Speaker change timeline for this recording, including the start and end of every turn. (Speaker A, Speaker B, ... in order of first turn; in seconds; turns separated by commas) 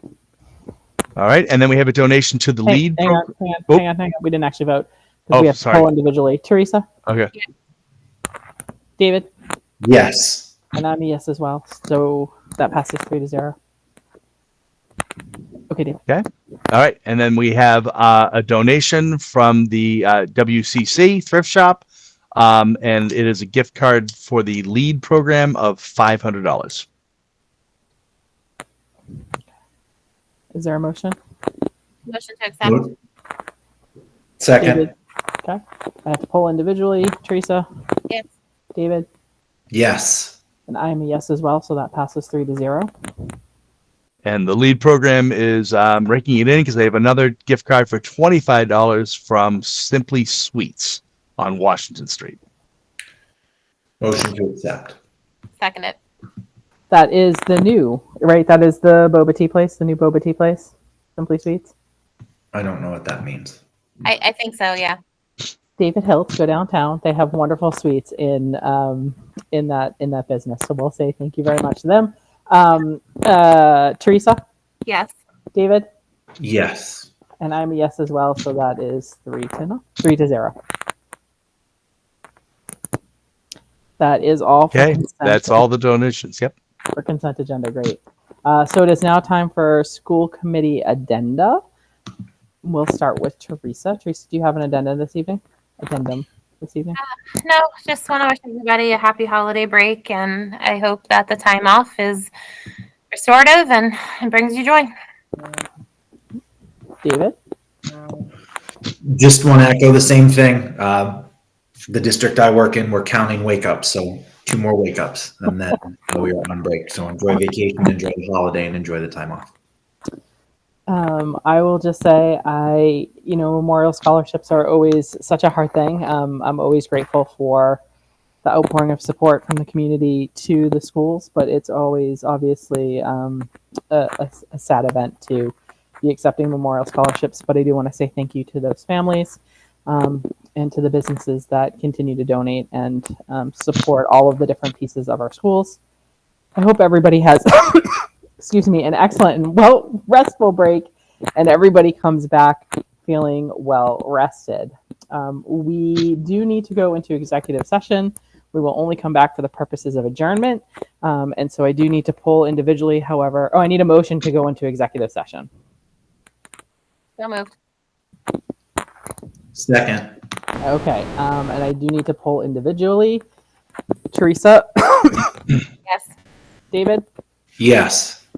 Speaker A: 1.1-3.8, Speaker B: 2.6-6.9, Speaker A: 5.3-5.8, Speaker A: 7.0-7.3, Speaker B: 9.0-9.3, Speaker C: 9.8-10.5, Speaker B: 10.7-13.6, Speaker B: 15.7-16.0, Speaker A: 16.1-26.9, Speaker B: 30.5-31.2, Speaker D: 32.0-32.9, Speaker C: 32.6-32.9, Speaker C: 34.4-34.9, Speaker B: 34.6-34.9, Speaker B: 35.4-37.7, Speaker B: 38.7-39.1, Speaker C: 39.7-40.4, Speaker B: 40.7-42.9, Speaker A: 44.2-52.4, Speaker C: 54.0-55.0, Speaker D: 55.6-56.0, Speaker B: 56.9-61.7, Speaker C: 62.5-63.6, Speaker D: 64.0-65.0, Speaker B: 65.8-74.4, Speaker D: 74.8-75.1, Speaker B: 75.5-75.9, Speaker C: 76.4-77.1, Speaker B: 77.4-80.5, Speaker B: 84.0-85.6, Speaker A: 84.7-86.5, Speaker B: 86.9-91.6, Speaker B: 92.6-97.0, Speaker D: 97.0-102.3, Speaker D: 103.1-104.9, Speaker B: 107.0-107.3, Speaker C: 109.0-111.2, Speaker C: 111.9-119.5, Speaker B: 120.9-127.8, Speaker B: 128.4-145.8, Speaker B: 146.6-165.5, Speaker D: 167.2-167.5, Speaker C: 169.5-170.1, Speaker B: 170.6-173.2, Speaker B: 174.1-175.4, Speaker B: 176.7-177.1, Speaker C: 177.6-178.2